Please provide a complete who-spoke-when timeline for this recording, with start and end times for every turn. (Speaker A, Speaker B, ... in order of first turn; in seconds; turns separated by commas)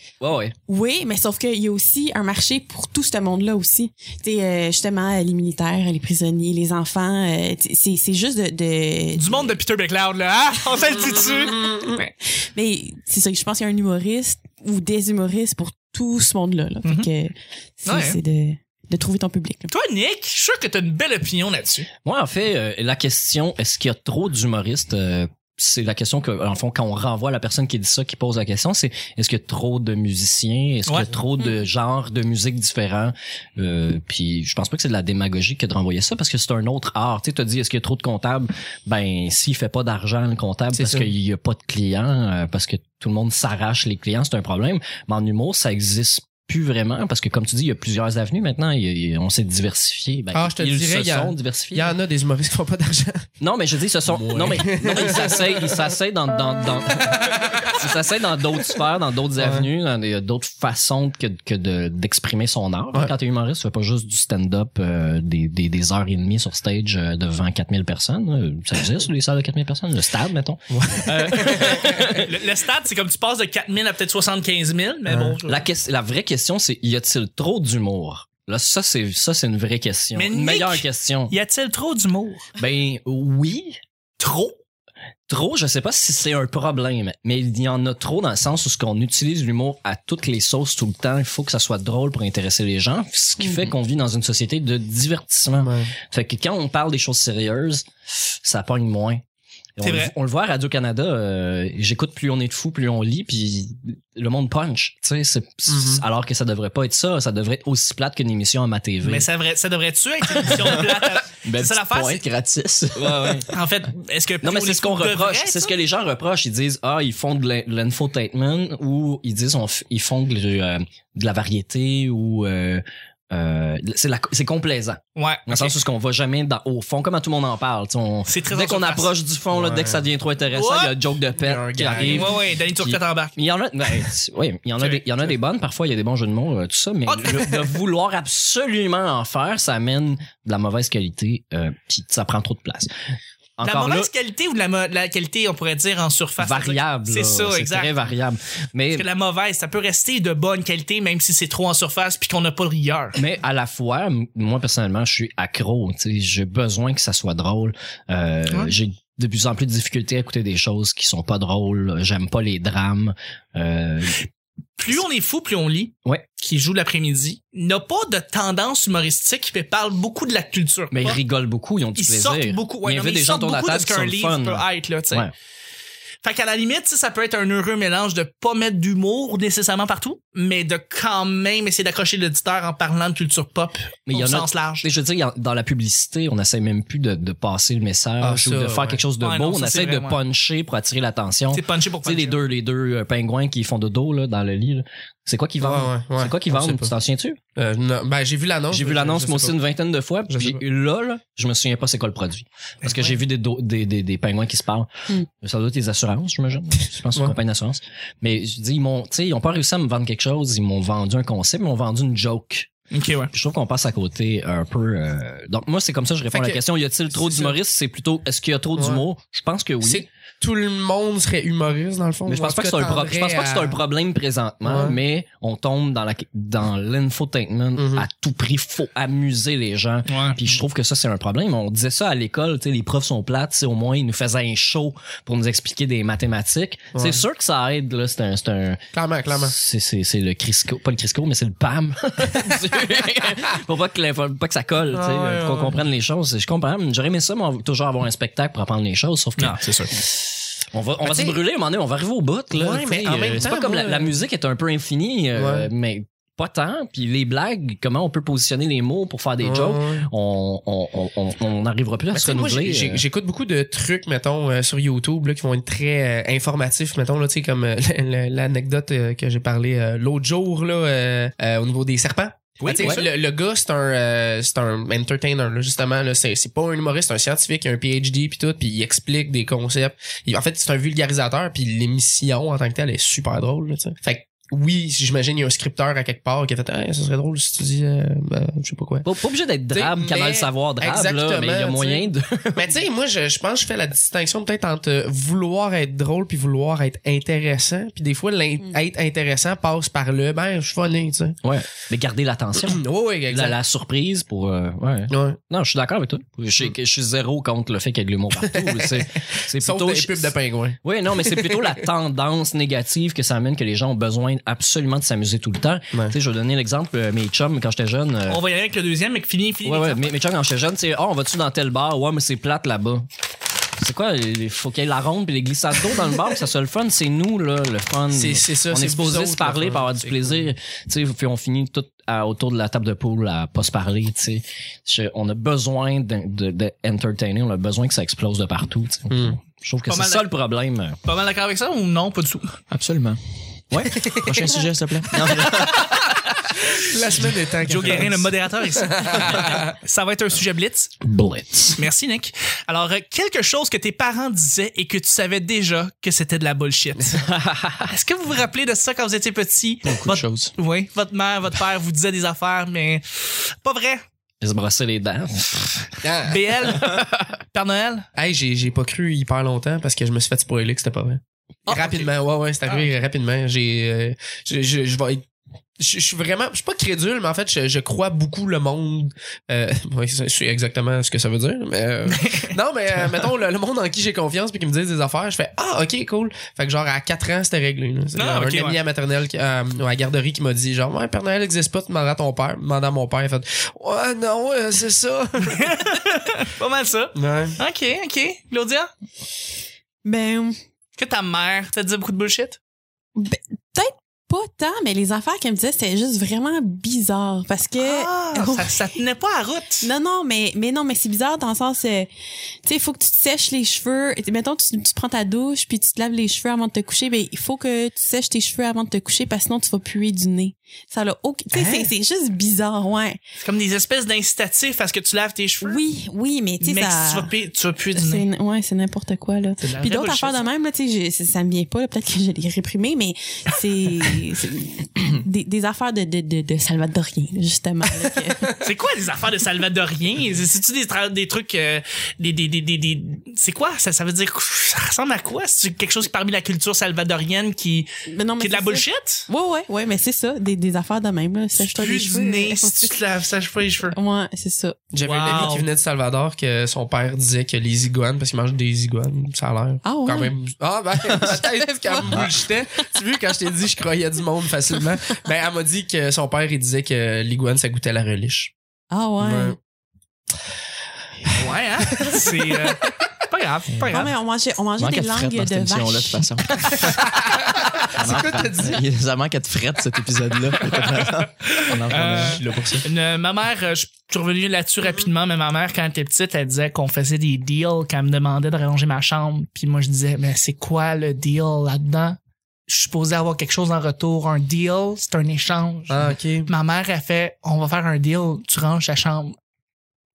Speaker A: 0.2-0.5, Speaker B: 0.7-9.5, Speaker C: 9.2-12.1, Speaker D: 11.5-11.9, Speaker B: 12.4-19.7, Speaker C: 16.8-17.1, Speaker C: 17.9-18.2, Speaker C: 19.7-21.9, Speaker A: 22.0-51.9, Speaker C: 30.9-31.1, Speaker D: 40.7-41.1, Speaker D: 50.3-53.3, Speaker A: 53.4-72.3, Speaker D: 54.1-55.8, Speaker D: 57.0-57.7, Speaker D: 59.4-59.7, Speaker D: 70.7-72.2, Speaker C: 72.0-75.6, Speaker D: 75.1-75.4, Speaker A: 75.4-81.3, Speaker C: 80.1-82.5, Speaker A: 82.6-83.8, Speaker C: 84.2-84.5, Speaker A: 85.3-99.2, Speaker D: 95.6-95.9, Speaker A: 99.8-109.3, Speaker C: 99.8-100.1, Speaker D: 105.7-106.0, Speaker C: 109.0-112.2, Speaker A: 110.4-110.8, Speaker E: 111.4-113.5, Speaker A: 112.9-113.5, Speaker C: 113.5-115.7, Speaker A: 114.4-142.9, Speaker C: 125.2-125.8, Speaker C: 128.3-129.1, Speaker D: 129.5-130.1, Speaker C: 130.5-130.9, Speaker D: 131.3-132.3, Speaker C: 132.0-133.3, Speaker C: 134.8-135.0, Speaker C: 137.1-137.7, Speaker A: 143.6-144.1, Speaker C: 143.6-147.9, Speaker A: 146.4-149.1, Speaker C: 148.9-153.2, Speaker A: 153.1-164.2, Speaker C: 164.8-171.2, Speaker A: 170.9-175.3, Speaker C: 172.0-175.3, Speaker C: 176.2-184.9, Speaker A: 184.1-197.4, Speaker D: 188.2-189.0, Speaker C: 189.2-190.2, Speaker C: 191.5-192.4, Speaker D: 195.6-196.9, Speaker D: 197.6-199.6, Speaker A: 198.7-212.7, Speaker D: 200.3-200.6, Speaker C: 212.9-213.3, Speaker A: 213.3-220.1, Speaker D: 216.3-216.6, Speaker D: 217.1-217.6, Speaker D: 218.8-219.0, Speaker D: 219.8-223.8, Speaker A: 222.3-263.0, Speaker D: 224.6-225.0, Speaker D: 227.8-228.1, Speaker C: 230.1-230.5, Speaker D: 236.9-237.2, Speaker D: 238.9-239.5, Speaker D: 244.9-245.8, Speaker C: 249.4-249.9, Speaker D: 251.0-251.4, Speaker D: 252.5-254.1, Speaker D: 255.3-255.7, Speaker D: 259.4-260.1, Speaker D: 262.1-289.1, Speaker C: 272.6-273.1, Speaker A: 272.8-273.1, Speaker A: 289.0-292.7, Speaker D: 289.7-301.4, Speaker A: 301.4-318.4, Speaker D: 302.6-303.6, Speaker D: 305.1-305.4, Speaker D: 308.4-311.8, Speaker C: 318.3-320.1, Speaker A: 319.6-323.1, Speaker A: 323.8-341.0, Speaker D: 328.1-330.5, Speaker D: 339.1-339.4, Speaker C: 339.9-340.3, Speaker C: 341.0-342.6, Speaker E: 342.7-343.2, Speaker A: 343.7-344.1, Speaker E: 343.8-345.8, Speaker D: 343.9-344.6, Speaker A: 345.1-346.1, Speaker D: 346.8-349.7, Speaker C: 347.3-350.9, Speaker A: 351.0-351.8, Speaker C: 351.7-357.3, Speaker A: 357.3-357.9, Speaker C: 357.8-364.0, Speaker E: 359.8-360.5, Speaker A: 364.4-365.8, Speaker D: 366.0-366.4, Speaker C: 366.2-368.1, Speaker A: 366.8-367.1, Speaker D: 368.1-375.2, Speaker C: 371.7-372.1, Speaker D: 375.8-395.8, Speaker C: 382.1-382.5, Speaker C: 388.1-388.8, Speaker C: 395.4-398.9, Speaker D: 397.1-397.6, Speaker B: 400.0-400.6, Speaker C: 401.0-402.6, Speaker B: 403.1-408.9, Speaker C: 407.8-409.9, Speaker B: 409.8-412.1, Speaker B: 412.6-423.2, Speaker C: 421.5-421.9, Speaker C: 423.4-425.8, Speaker B: 425.6-427.3, Speaker C: 426.6-428.2, Speaker B: 427.9-438.5, Speaker C: 429.6-430.4, Speaker C: 438.5-447.9, Speaker B: 448.1-452.9, Speaker C: 448.4-449.3, Speaker C: 451.6-454.0, Speaker B: 453.9-454.9, Speaker D: 454.9-468.5, Speaker C: 455.0-455.7, Speaker B: 459.8-460.3, Speaker B: 461.2-462.8, Speaker E: 462.1-462.3, Speaker B: 468.9-469.6, Speaker D: 469.2-469.6, Speaker D: 471.2-472.6, Speaker C: 471.3-474.1, Speaker B: 473.8-476.2, Speaker E: 474.8-477.0, Speaker D: 476.8-478.8, Speaker E: 477.8-482.8, Speaker C: 480.7-499.3, Speaker D: 482.1-482.8, Speaker D: 495.9-496.5